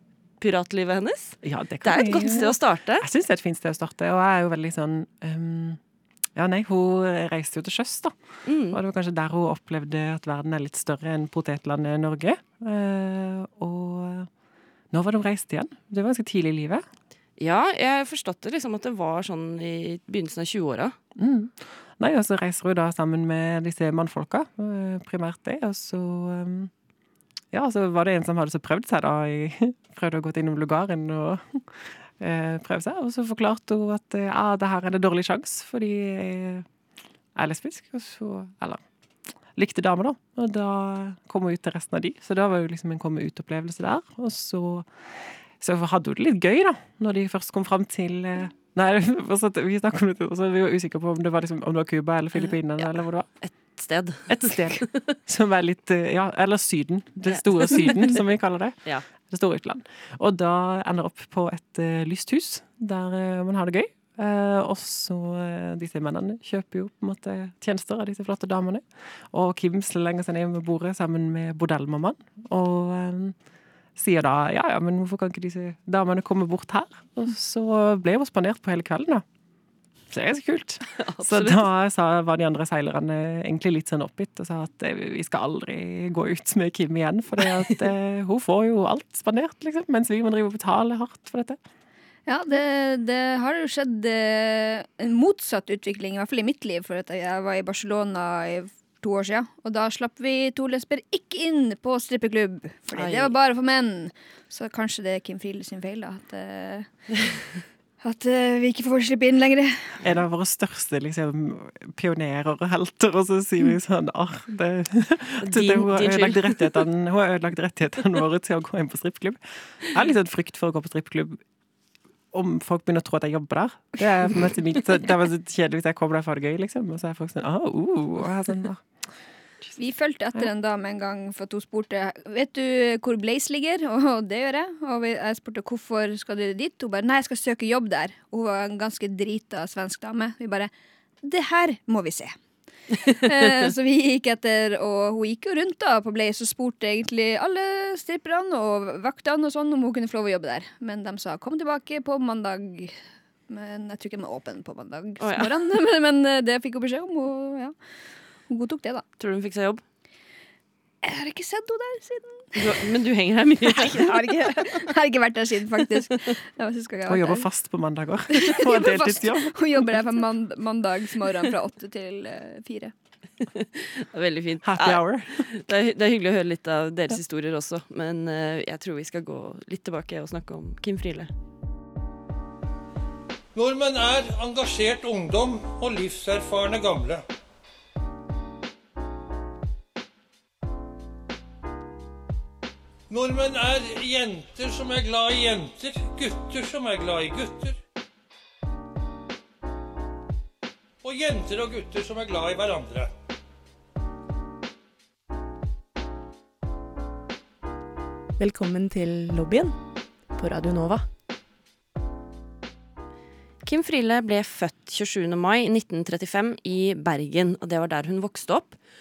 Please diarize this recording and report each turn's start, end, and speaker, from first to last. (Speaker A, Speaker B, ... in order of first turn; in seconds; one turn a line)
Speaker A: 0.4-3.0
Speaker B: 1.4-5.8
Speaker B: 6.3-8.2
Speaker A: 8.4-8.8
Speaker B: 8.7-14.3
Speaker B: 14.9-16.8
Speaker A: 17.4-20.9
Speaker B: 21.1-26.7
Speaker B: 27.5-36.6
Speaker B: 37.3-38.8
Speaker B: 39.5-53.3
Speaker A: 52.4-55.1
Speaker B: 54.3-73.3
Speaker A: 57.3-58.2
Speaker B: 74.0-79.2
Speaker B: 80.1-91.6
Speaker A: 80.9-81.7
Speaker C: 92.2-107.1
Speaker A: 102.9-103.3
Speaker C: 108.0-110.0
Speaker B: 110.0-121.4
Speaker A: 115.4-116.8
Speaker B: 122.3-128.8
Speaker C: 129.8-140.7
Speaker C: 141.2-142.3
Speaker C: 143.1-153.0
Speaker A: 143.2-143.6
Speaker C: 153.5-157.7
Speaker A: 155.2-155.5
Speaker C: 158.5-159.0
Speaker A: 159.2-159.8
Speaker C: 161.0-162.8
Speaker A: 162.5-164.7
Speaker C: 163.7-167.4
Speaker B: 167.1-170.0
Speaker C: 168.3-172.9
Speaker A: 173.4-181.3
Speaker B: 174.6-175.5
Speaker D: 183.5-187.2
Speaker D: 193.1-197.8
Speaker D: 201.0-203.1
Speaker E: 208.4-209.7
Speaker E: 210.3-211.0
Speaker A: 213.6-218.8